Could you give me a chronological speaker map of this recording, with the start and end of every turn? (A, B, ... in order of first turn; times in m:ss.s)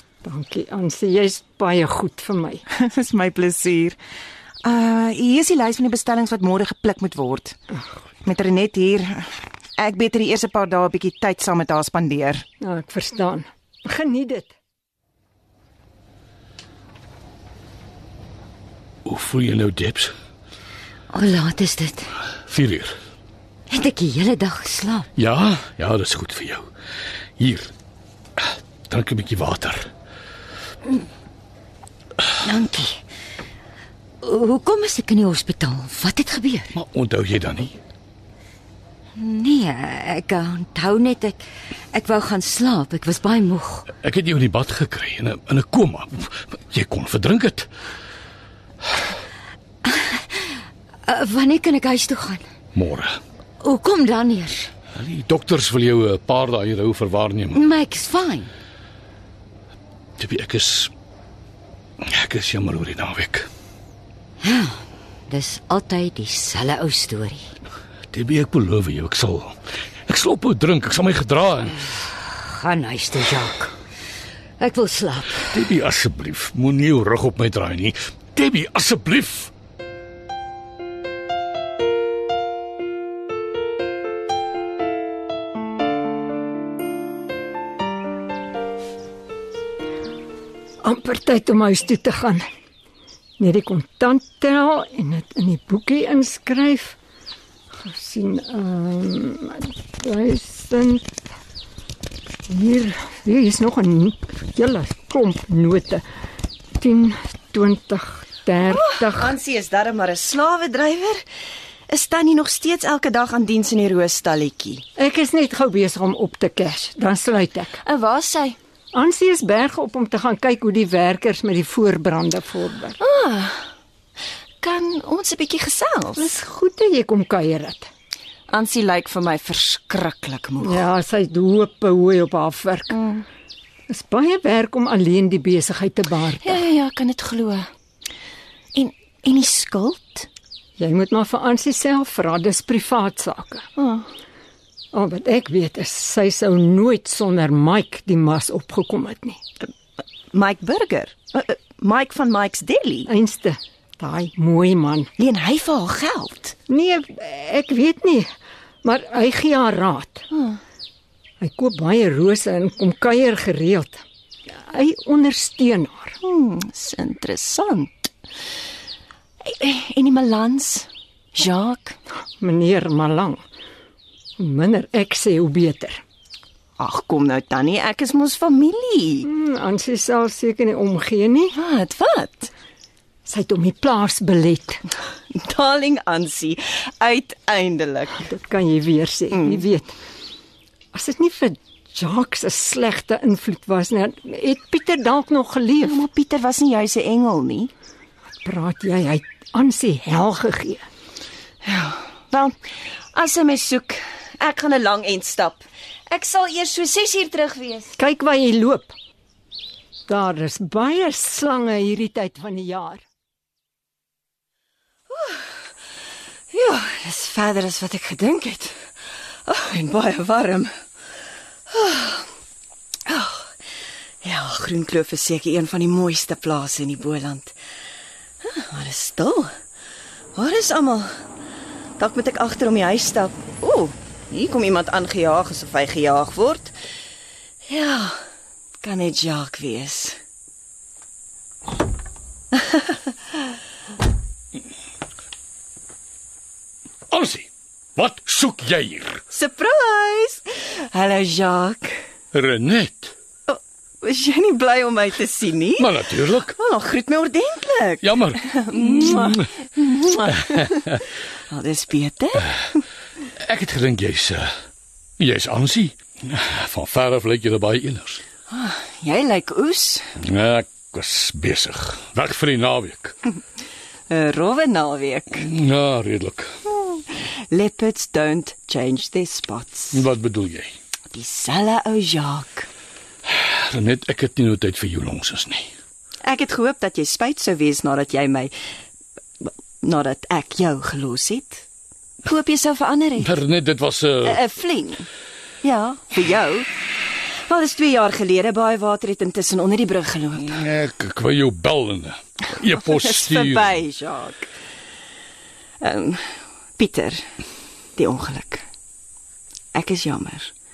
0:00.2-0:02.6 A
0:02.7-0:04.0 B
0:04.6-0:07.6 B
0:08.2-0:12.4 B
0:12.6-0:14.5 A
0:19.0-0:20.1 C
0:21.1-0:22.1 D
0:22.5-0:23.0 C
0:23.7-0:25.1 D
0:25.2-0:26.7 C
0:27.4-0:27.7 C
0:28.4-0:29.9 C
0:32.4-0:33.0 D
0:34.2-0:36.7 D
0:36.7-0:37.8 C
0:39.2-0:41.4 D
0:41.9-0:43.9 D
0:43.9-0:47.7 C
0:49.9-0:50.2 D
0:51.1-0:52.4 D
0:52.8-0:53.2 C
0:53.6-0:54.7 D
0:54.9-0:57.6 C
0:57.6-0:58.5 D
1:00.2-1:00.9 C
1:02.0-1:03.5 C
1:04.4-1:04.8 D
1:05.3-1:07.4 D
1:08.1-1:11.9 C
1:12.2-1:13.7 D
1:14.6-1:15.5 D
1:15.5-1:19.5 C
1:30.8-1:32.4 A
1:33.4-1:37.0 A
1:37.8-1:41.1 A
1:42.5-1:46.0 A
1:46.8-1:49.4 A
1:48.6-1:51.2 E
1:51.9-1:54.8 E
1:55.0-1:57.8 A
1:57.8-1:58.6 E
1:58.9-2:03.0 A
2:03.0-2:03.7 E
2:04.6-2:06.3 E
2:06.2-2:07.9 A
2:08.5-2:10.9 E
2:10.6-2:13.0 A
2:12.9-2:13.3 E
2:13.9-2:16.6 A
2:16.3-2:17.7 E
2:18.8-2:20.3 E
2:20.8-2:23.6 A
2:23.8-2:24.1 E
2:24.9-2:29.4 A
2:30.3-2:33.1 E
2:33.1-2:35.1 A
2:35.2-2:36.6 E
2:36.7-2:38.3 A
2:38.8-2:40.2 A
2:40.3-2:40.6 E
2:41.4-2:44.0 A
2:44.6-2:46.2 A
2:46.2-2:48.1 E
2:49.4-2:52.0 E
2:52.4-2:53.4 A
2:54.4-2:56.0 A
2:56.8-2:59.3 E
2:59.2-3:01.6 A
3:01.5-3:02.5 E
3:03.3-3:04.8 A
3:05.3-3:08.3 E
3:08.2-3:09.9 A
3:09.3-3:09.6 E
3:10.9-3:16.0 A
3:15.8-3:17.7 E
3:18.4-3:20.8 A
3:21.6-3:22.6 E
3:23.1-3:28.0 E
3:28.0-3:28.9 A
3:30.1-3:33.0 A
3:36.5-3:38.8 E
3:39.5-3:40.7 E
3:41.7-3:42.3 E
3:43.1-3:43.5 E
3:44.2-3:47.5 E
3:48.4-3:49.5 E
3:50.4-3:51.1 E
3:52.0-3:56.8 E
3:57.7-3:58.2 E
3:58.8-4:00.2 E
4:07.1-4:09.2 C
4:09.3-4:12.0 E
4:12.3-4:13.1 C
4:13.5-4:20.8 E
4:15.8-4:16.5 C
4:18.0-4:19.5 C
4:20.1-4:20.9 C
4:21.5-4:22.5 E
4:23.4-4:24.5 C
4:25.2-4:28.2 C
4:28.5-4:30.0 E
4:30.2-4:33.2 C
4:34.1-4:35.5 E
4:35.4-4:36.5 C
4:36.8-4:40.0 E
4:39.9-4:40.7 C
4:41.1-4:42.7 E
4:43.3-4:45.7 C
4:46.2-4:48.5 E
4:49.8-4:51.6 E
4:52.2-4:53.4 E
4:53.2-4:54.4 C
4:54.2-4:55.1 E
4:55.6-4:56.7 E
4:57.5-5:00.6 E
5:00.5-5:03.8 C
5:02.8-5:04.5 E
5:05.8-5:07.3 E
5:08.0-5:08.6 E
5:09.7-5:10.5 E